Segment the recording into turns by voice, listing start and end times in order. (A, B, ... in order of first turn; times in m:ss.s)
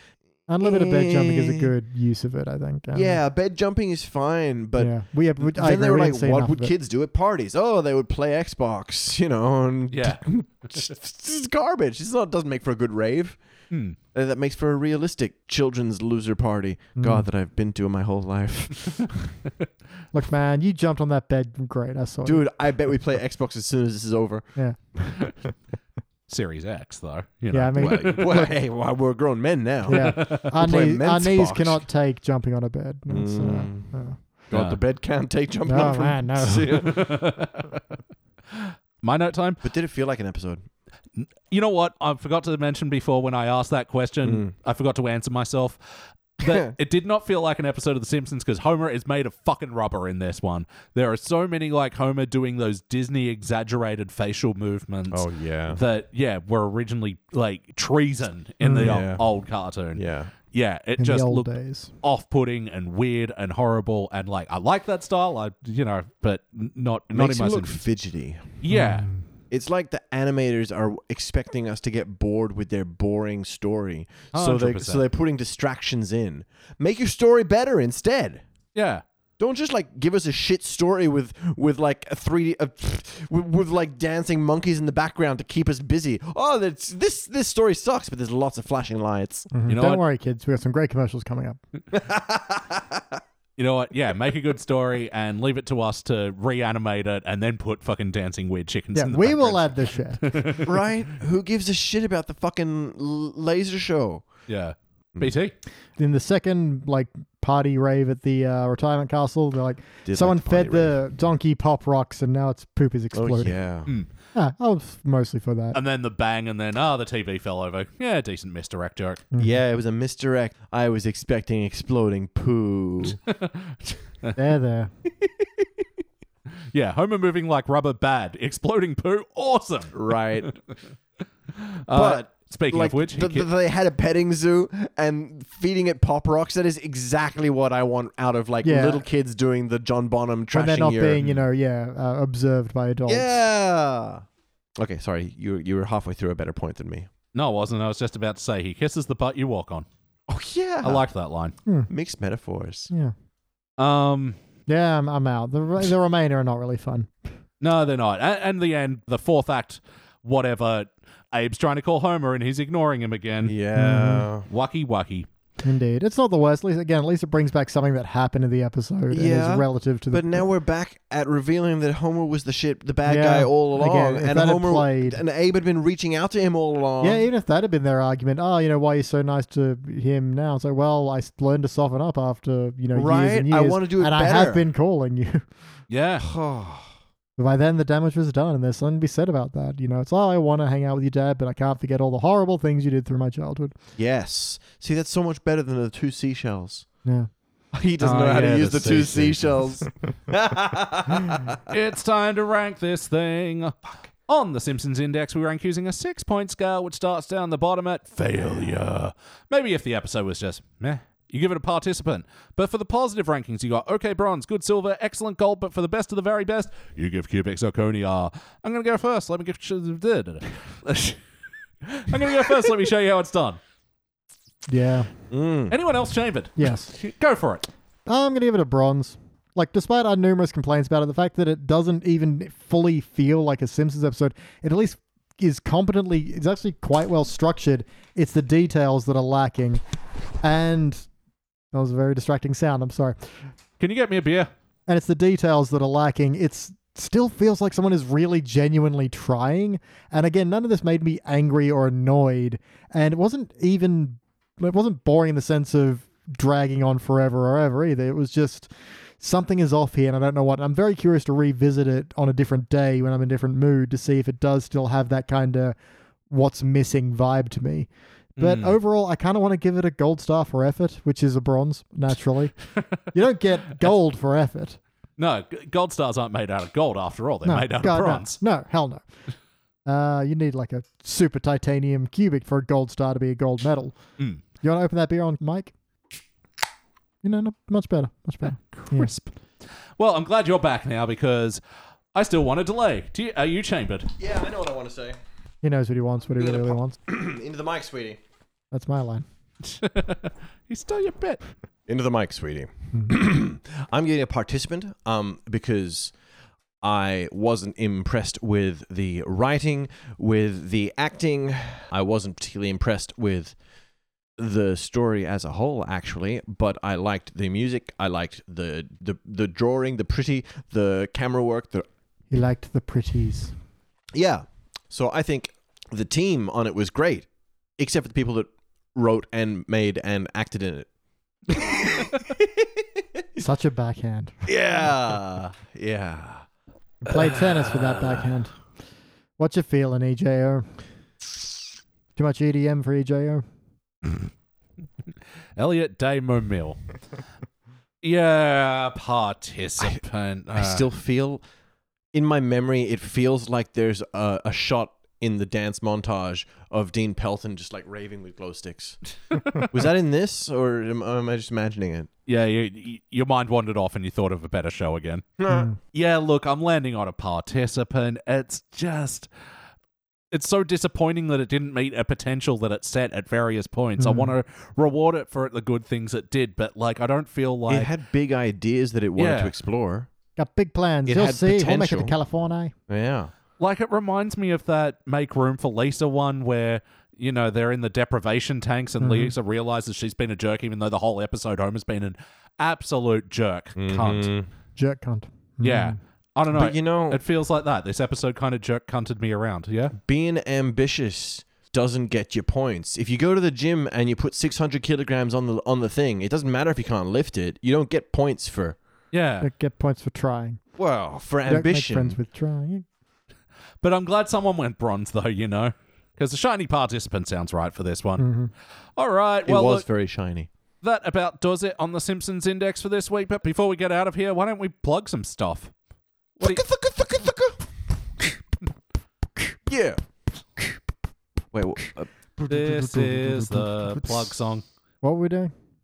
0:00.5-0:03.2 A
0:00.6-0:01.7 B
0:02.9-0:13.4 B
0:04.8-0:06.7 A
0:09.9-0:10.2 C
0:13.7-0:14.0 C
0:14.1-0:19.4 B
0:17.0-0:17.3 A
0:20.1-0:22.5 A
0:22.2-0:24.5 B
0:24.6-0:25.2 A
0:26.3-0:28.3 C
0:27.5-0:28.5 A
0:27.7-0:31.8 B
0:29.9-0:34.2 A
0:29.9-0:30.5 C
0:33.1-0:33.9 B
0:34.5-0:37.1 B
0:34.5-0:34.8 C
0:35.7-0:36.8 A
0:36.5-0:37.8 C
0:38.5-0:39.6 C
0:39.6-0:40.6 B
0:41.2-0:45.8 C
0:44.2-0:44.5 B
0:46.4-1:01.5 C
0:46.4-0:46.7 B
0:55.1-0:55.8 B
0:58.6-0:59.0 A
0:58.7-0:59.2 B
1:00.0-1:00.3 B
1:01.0-1:01.9 A
1:02.0-1:07.8 C
1:07.1-1:08.6 B
1:08.6-1:09.1 C
1:08.7-1:09.2 A
1:09.5-1:18.4 B
1:14.3-1:15.0 C
1:18.8-1:19.0 C
1:19.4-1:29.5 B
1:29.5-1:31.6 A
1:29.7-1:30.0 C
1:31.9-1:33.2 B
1:33.6-1:40.7 C
1:38.9-1:40.2 A
1:40.6-1:44.3 B
1:44.5-1:45.6 C
1:46.0-1:53.6 A
1:50.0-1:51.0 B
1:53.1-1:53.9 B
1:54.4-1:55.8 A
1:55.7-1:59.2 C
1:59.4-2:03.2 B
2:03.3-2:04.4 C
2:04.4-2:04.9 A
2:05.2-2:05.7 B
2:06.7-2:10.0 C
2:09.9-2:10.5 B
2:11.6-2:13.5 C
2:11.9-2:21.2 B
2:18.6-2:19.0 A
2:20.5-2:23.4 A
2:23.1-2:24.2 B
2:24.8-2:27.1 B
2:27.3-2:29.9 C
2:30.3-2:31.0 B
2:30.8-2:31.6 C
2:31.9-2:32.9 B
2:33.8-2:34.4 C
2:34.7-2:37.1 A
2:37.6-2:43.6 C
2:43.4-2:44.5 B
2:43.8-2:44.3 A
2:44.5-2:45.3 C
2:45.6-2:50.5 A
2:49.1-2:57.3 B
2:53.0-2:55.2 A
2:57.0-3:05.4 A
3:02.9-3:04.7 B
3:05.9-3:06.3 C
3:06.2-3:06.9 B
3:07.4-3:13.8 A
3:14.0-3:16.9 B
3:17.0-3:17.3 A
3:17.7-3:21.6 B
3:18.0-3:19.5 C
3:21.7-3:41.2 C
3:41.8-3:43.6 C
3:44.7-3:45.1 A
3:45.3-3:45.8 B
3:45.7-3:47.7 C
3:46.6-3:46.9 A
3:48.1-3:59.8 A
4:00.4-4:01.1 A
4:01.7-4:03.2 A
4:03.8-4:04.5 C
4:04.9-4:25.8 A
4:26.3-4:32.6 A
4:28.4-4:28.8 C
4:33.1-4:34.8 A
4:35.2-4:38.4 C
4:37.4-4:39.1 A
4:39.9-4:44.0 A
4:44.6-4:45.7 A
4:47.2-4:49.1 A
4:48.8-4:49.3 C
4:50.0-4:51.6 C
4:52.2-4:54.1 C
4:54.2-4:55.2 B
4:55.6-4:57.0 A
4:56.4-4:58.2 B
4:58.7-4:59.2 A
4:59.6-5:01.4 C
5:01.9-5:06.1 B
5:06.8-5:13.6 B
5:14.4-5:21.9 B
5:22.3-5:23.5 A
5:24.1-5:27.3 B
5:27.8-5:30.9 B
5:31.5-5:33.2 B
5:33.4-5:34.4 A
5:34.5-5:36.5 B
5:37.0-5:38.6 A
5:37.1-5:38.2 B
5:39.4-5:40.7 A
5:42.2-5:43.4 A
5:45.6-5:46.9 C
5:48.0-5:50.9 C
5:50.6-5:51.4 B
5:52.1-5:59.0 B
5:59.6-6:02.1 B
6:02.3-6:05.3 C
6:05.4-6:05.7 B
6:05.5-6:05.8 A
6:05.9-6:09.3 C
6:10.3-6:17.9 C
6:14.0-6:14.3 A
6:17.7-6:20.1 B
6:19.2-6:19.5 C
6:20.4-6:22.7 A
6:21.1-6:22.2 B
6:22.9-6:23.3 B
6:23.6-6:34.3 C
6:29.0-6:29.3 A
6:33.8-6:34.5 B
6:34.8-6:36.0 A
6:35.6-6:40.0 C
6:36.5-6:37.2 B
6:40.0-6:48.8 B
6:49.1-6:49.5 C
6:49.4-6:50.6 A
6:50.8-6:52.2 B
6:51.5-6:52.9 A
6:53.8-6:58.2 C
6:58.2-6:58.5 A
6:59.0-6:59.8 C
6:59.5-7:00.5 B
7:00.8-7:05.7 C
7:06.4-7:07.6 B
7:09.7-7:10.0 B
7:11.5-7:12.1 B
7:12.4-7:14.3 A
7:12.5-7:14.6 C
7:15.0-7:15.5 A